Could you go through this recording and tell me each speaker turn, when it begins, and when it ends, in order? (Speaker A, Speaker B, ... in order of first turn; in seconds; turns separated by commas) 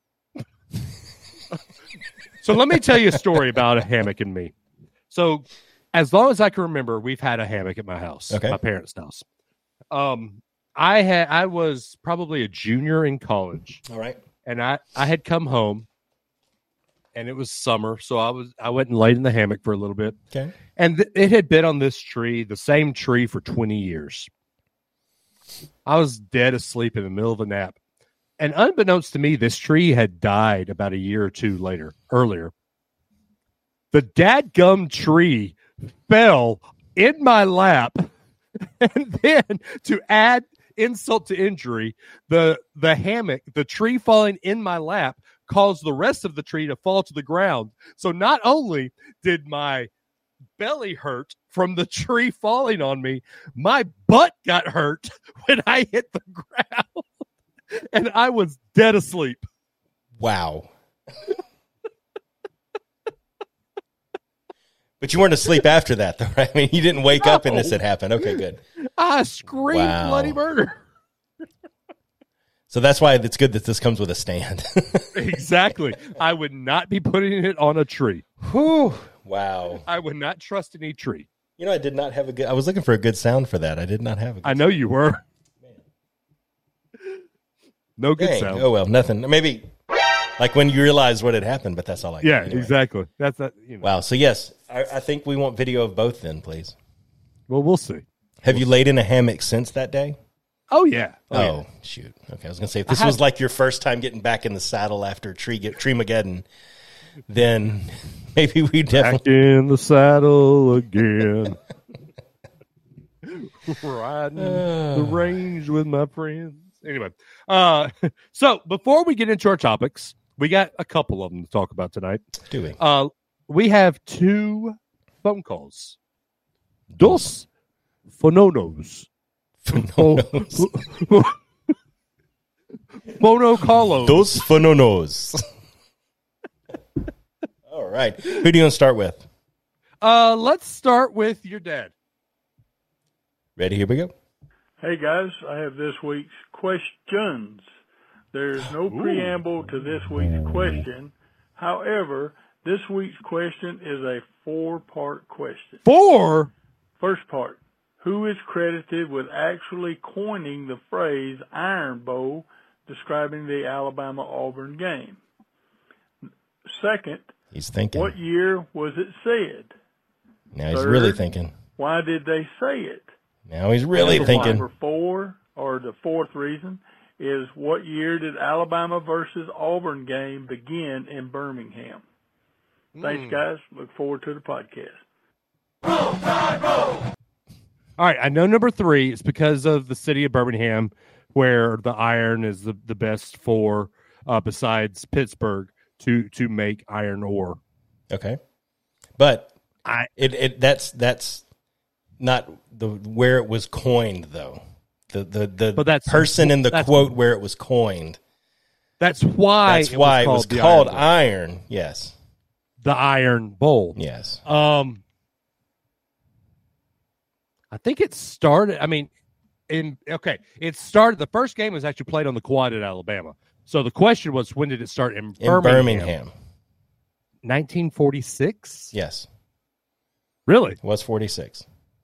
Speaker A: 2.4-4.5, Speaker A: 5.1-9.2, Speaker B: 8.3-8.6, Speaker A: 9.9-13.8, Speaker B: 13.8-14.2, Speaker A: 14.4-15.8, Speaker A: 17.1-20.1, Speaker A: 20.8-24.3, Speaker A: 25.9-27.8, Speaker A: 28.4-32.5, Speaker A: 33.9-38.1, Speaker A: 38.6-49.9, Speaker A: 50.6-59.4, Speaker B: 60.2-60.7, Speaker B: 65.0-68.6, Speaker A: 67.2-67.7, Speaker A: 68.8-70.8, Speaker B: 69.7-70.4, Speaker B: 72.7-75.4, Speaker A: 75.1-78.2, Speaker B: 78.4-79.8, Speaker A: 79.8-81.3, Speaker B: 81.6-84.8, Speaker A: 84.4-85.2, Speaker A: 88.0-88.7, Speaker B: 88.2-89.7, Speaker B: 90.4-92.7, Speaker A: 92.2-93.9, Speaker B: 93.8-96.8, Speaker A: 97.5-98.6, Speaker B: 98.4-100.2, Speaker A: 100.7-101.6, Speaker B: 101.3-106.5, Speaker A: 102.9-103.2, Speaker B: 107.3-109.2, Speaker A: 108.9-111.6, Speaker A: 113.2-122.2, Speaker B: 114.3-115.4, Speaker B: 122.5-122.8, Speaker A: 122.8-126.0, Speaker B: 126.9-127.3, Speaker A: 127.0-127.5, Speaker A: 128.1-129.1, Speaker B: 129.6-130.7, Speaker A: 129.7-131.4, Speaker A: 133.1-134.3, Speaker B: 134.0-135.4, Speaker B: 137.7-139.2, Speaker A: 140.0-141.9, Speaker B: 143.6-144.1, Speaker C: 144.8-147.7, Speaker C: 148.3-155.8, Speaker A: 148.8-149.3, Speaker A: 155.8-156.5, Speaker C: 157.0-165.2, Speaker C: 166.7-167.3, Speaker B: 167.5-168.2, Speaker C: 167.9-169.7, Speaker B: 170.5-171.5, Speaker C: 170.7-171.2, Speaker C: 171.8-173.1, Speaker B: 173.5-174.7, Speaker A: 173.9-174.6, Speaker C: 173.9-182.0, Speaker A: 182.9-183.4, Speaker C: 183.0-185.0, Speaker A: 188.0-197.6, Speaker B: 198.1-198.4, Speaker B: 199.2-199.5, Speaker A: 199.8-200.1, Speaker B: 200.2-201.4, Speaker B: 202.2-204.6, Speaker B: 205.1-208.2, Speaker A: 205.8-207.1, Speaker A: 209.0-211.1, Speaker B: 209.7-212.1, Speaker A: 212.8-215.0, Speaker B: 213.9-214.4, Speaker A: 217.7-219.1, Speaker A: 219.7-226.1, Speaker B: 225.4-226.3, Speaker A: 227.4-228.9, Speaker B: 228.9-229.3, Speaker A: 230.5-230.8, Speaker B: 230.8-231.6